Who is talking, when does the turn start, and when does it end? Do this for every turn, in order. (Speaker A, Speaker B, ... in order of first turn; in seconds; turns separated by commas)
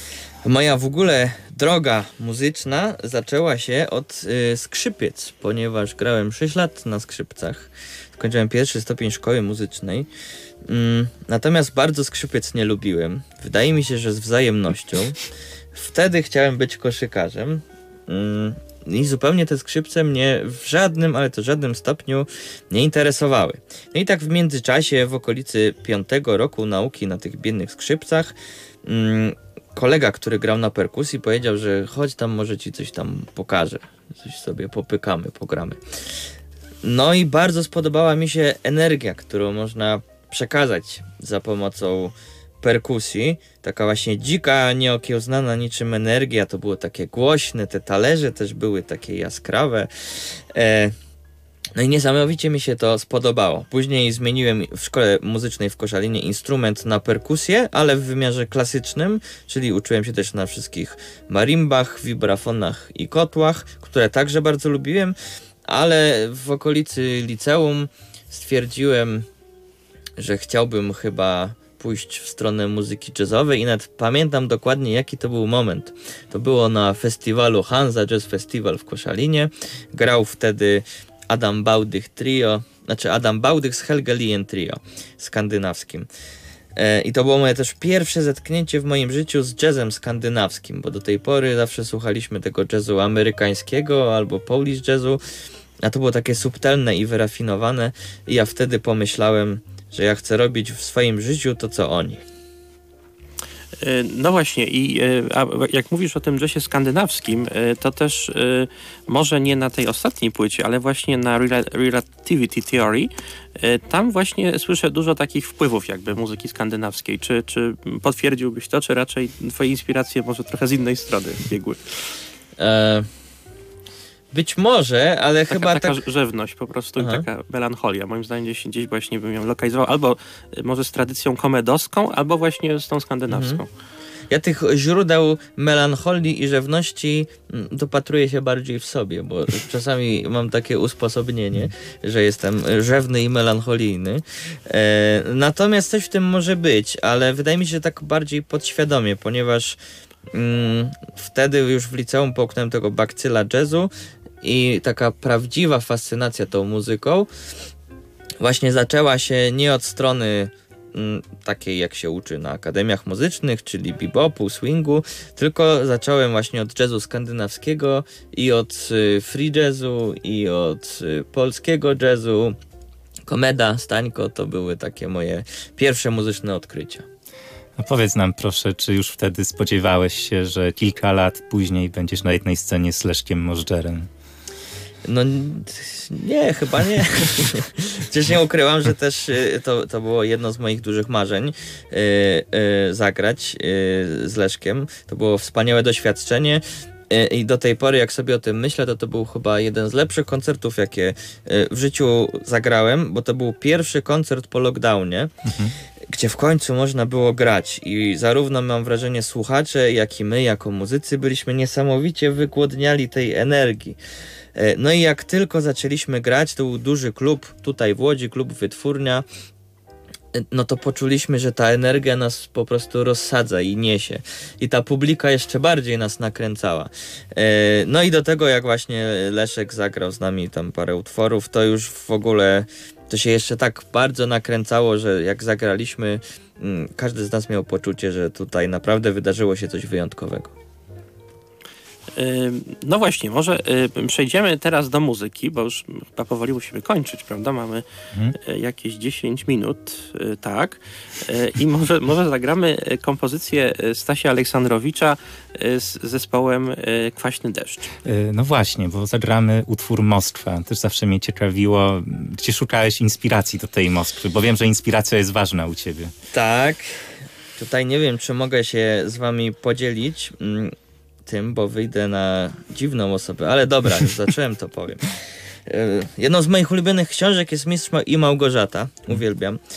Speaker A: 0.4-10.1, Speaker A: 10.7-15.2, Speaker A: 15.8-35.8, Speaker A: 36.8-51.0, Speaker A: 51.8-65.2, Speaker A: 65.7-69.3, Speaker A: 70.2-86.1, Speaker A: 86.8-95.2, Speaker A: 95.8-102.2, Speaker B: 103.8-122.0, Speaker A: 122.6-123.1, Speaker A: 124.3-126.0, Speaker B: 125.5-133.7, Speaker A: 127.0-127.2, Speaker A: 133.3-133.6, Speaker A: 134.3-149.8, Speaker A: 150.3-153.9, Speaker A: 154.4-157.3, Speaker A: 158.4-172.6, Speaker A: 173.3-177.1, Speaker C: 177.8-184.1, Speaker A: 185.1-205.3, Speaker C: 205.5-205.7, Speaker A: 206.1-214.0, Speaker A: 214.6-219.2, Speaker A: 220.3-240.5, Speaker B: 242.1-257.9, Speaker C: 258.1-266.1, Speaker A: 266.3-267.0, Speaker A: 267.6-270.8, Speaker A: 271.3-275.1, Speaker A: 275.7-279.6